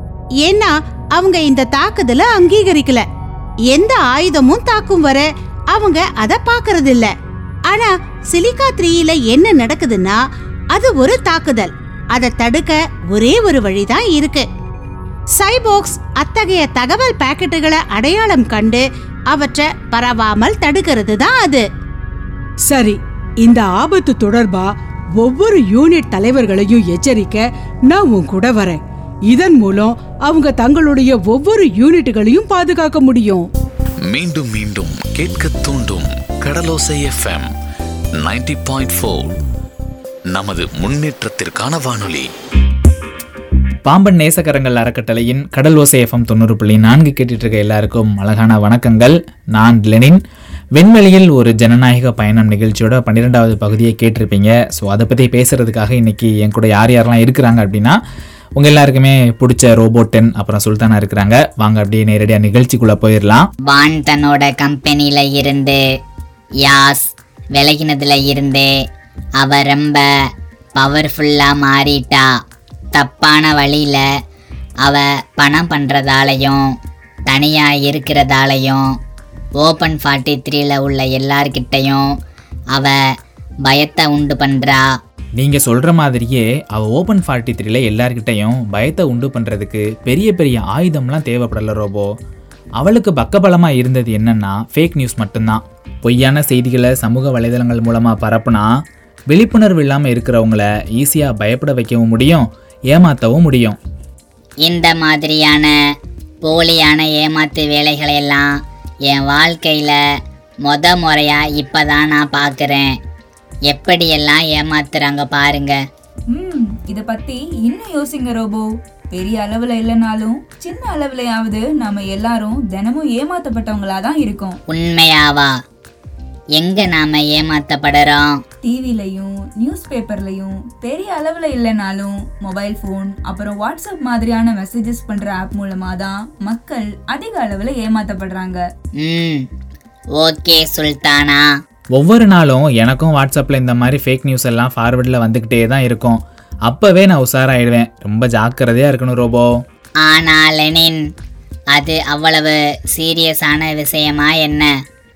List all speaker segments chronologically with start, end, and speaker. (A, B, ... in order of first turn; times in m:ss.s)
0:00.4-0:03.0 A
0:03.7-0:07.1 A
0:07.7-0:10.2 A
0:10.7-0:14.5 A
0:15.4-0:21.6 A
0:23.4-0:24.6 B
0:25.3-0:27.3 B
0:28.1-0:28.8 B
0:30.4-0:30.8 B
0:31.3-0:33.4 B
0:34.1-0:37.5 C
0:38.2-0:39.4 C
0:40.3-0:42.3 C
0:43.8-0:50.2 D
0:50.8-0:58.0 D
0:58.6-1:03.5 D
1:03.7-1:05.8 E
1:06.6-1:08.7 E
1:09.4-1:10.1 E
1:10.8-1:12.3 E
1:12.9-1:14.0 E
1:14.8-1:16.6 E
1:17.3-1:18.9 E
1:19.6-1:22.1 E
1:23.6-1:24.9 E
1:25.4-1:32.1 D
1:32.8-1:38.7 D
1:39.3-1:43.8 D
1:44.6-1:45.7 E
1:46.4-1:48.5 E
1:49.1-1:50.0 E
1:50.6-1:52.9 E
1:53.7-1:55.8 E
1:56.3-2:04.6 F
2:04.7-2:05.5 E
2:06.6-2:08.4 E
2:08.6-2:18.6 F
2:19.0-2:19.4 E
2:20.2-2:21.5 E
2:21.9-2:29.5 D
2:30.0-2:31.0 E
2:31.7-2:34.7 E